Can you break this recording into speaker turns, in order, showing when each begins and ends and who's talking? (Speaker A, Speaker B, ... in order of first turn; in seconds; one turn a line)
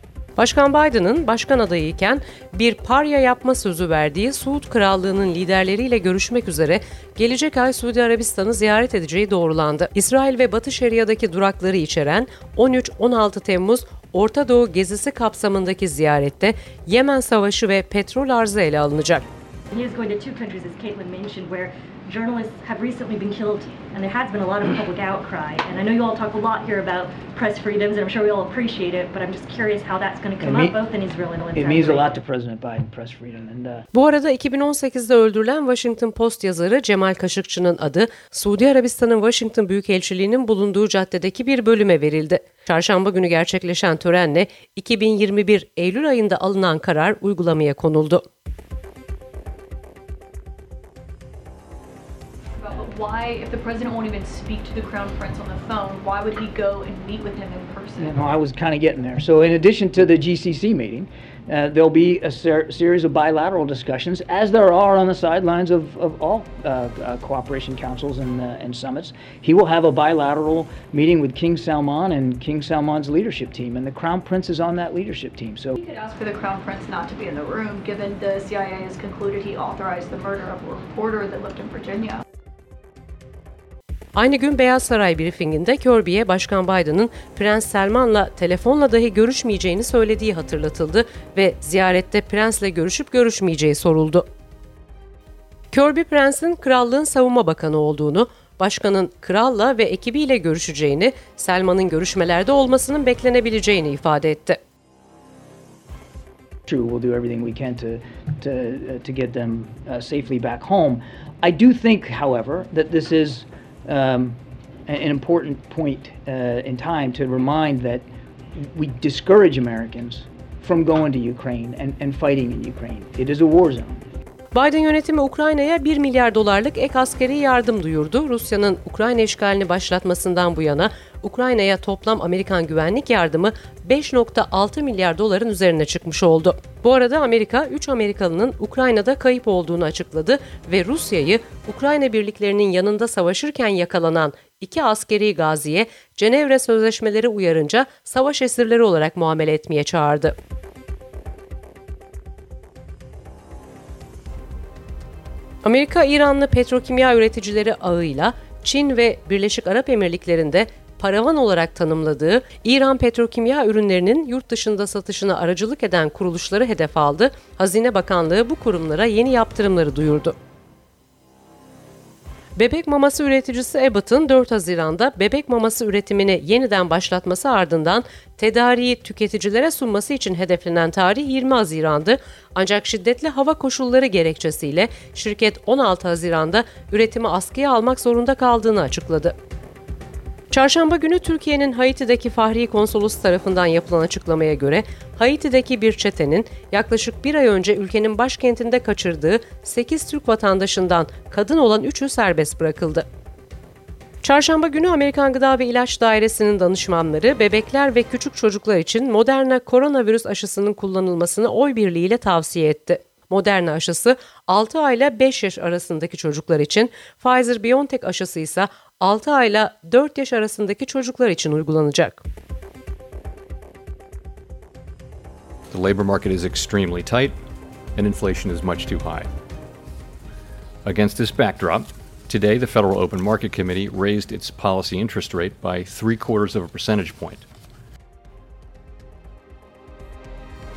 Speaker A: 0.4-19.3
Speaker B: 19.7-32.2
Speaker C: 30.4-30.8
Speaker C: 31.6-33.8
Speaker A: 33.9-48.2
Speaker D: 52.6-58.4
Speaker C: 58.0-75.8
Speaker D: 75.8-82.2
Speaker A: 84.2-94.3
Speaker A: 95.7-104.6
Speaker C: 106.7-124.0
Speaker A: 124.5-150.4
Speaker A: 155.6-170.4
Speaker A: 172.6-189.3
Speaker A: 190.5-203.1
Speaker A: 204.2-222.2
Speaker E: 225.7-227.3
Speaker E: 228.0-229.3
Speaker E: 230.8-237.5